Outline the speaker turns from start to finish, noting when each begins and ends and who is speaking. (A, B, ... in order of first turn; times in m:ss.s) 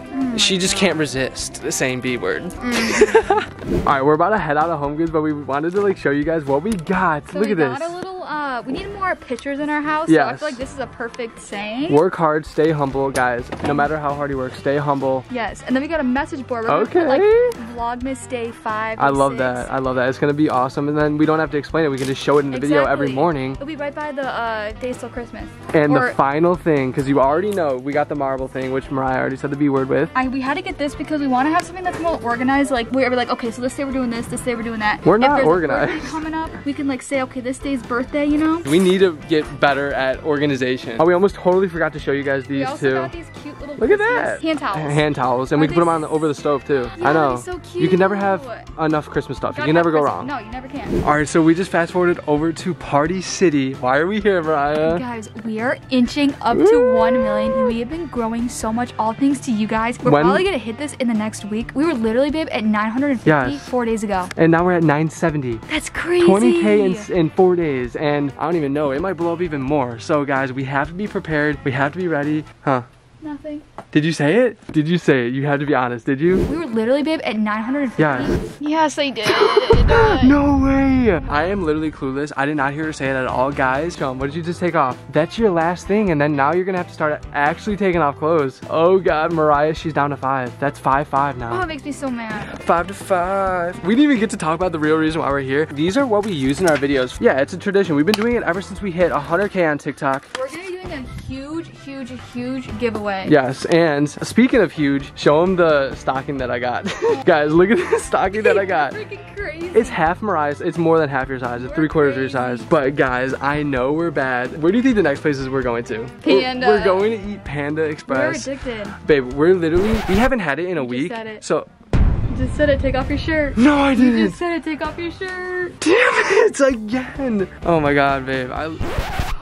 0:00.1-0:01.1 A
0:00.3-0:07.9 B
0:02.6-0:03.2 A
0:07.3-0:12.0 A
0:10.1-0:10.6 B
0:11.9-0:15.3 B
0:15.3-0:19.7 A
0:16.7-0:17.6 B
0:19.0-0:23.6 B
0:22.5-0:26.2 A
0:25.7-0:30.1 B
0:30.1-0:38.7 A
0:35.0-0:36.2 B
0:38.6-0:43.1 B
0:42.5-0:46.2 A
0:43.8-0:50.3 B
0:46.9-0:48.7 A
0:49.5-0:51.0 A
0:51.0-0:55.0 B
0:54.8-1:04.3 A
0:56.5-0:57.7 B
1:00.0-1:00.5 B
1:03.2-1:03.7 B
1:04.4-1:05.6 B
1:05.7-1:07.1 A
1:06.2-1:12.9 B
1:13.2-1:13.6 A
1:13.9-1:16.4 B
1:16.5-1:20.4 A
1:18.0-1:18.4 B
1:19.2-1:31.7 B
1:31.5-1:32.6 A
1:32.4-1:40.3 B
1:40.3-1:43.4 A
1:43.2-1:49.0 B
1:47.1-1:47.3 A
1:48.3-1:50.0 A
1:49.7-2:01.7 B
1:51.6-1:52.7 A
1:56.2-1:57.1 A
1:58.1-1:59.0 A
2:00.8-2:01.4 A
2:02.3-2:05.8 A
2:03.6-2:04.4 B
2:05.8-2:08.9 B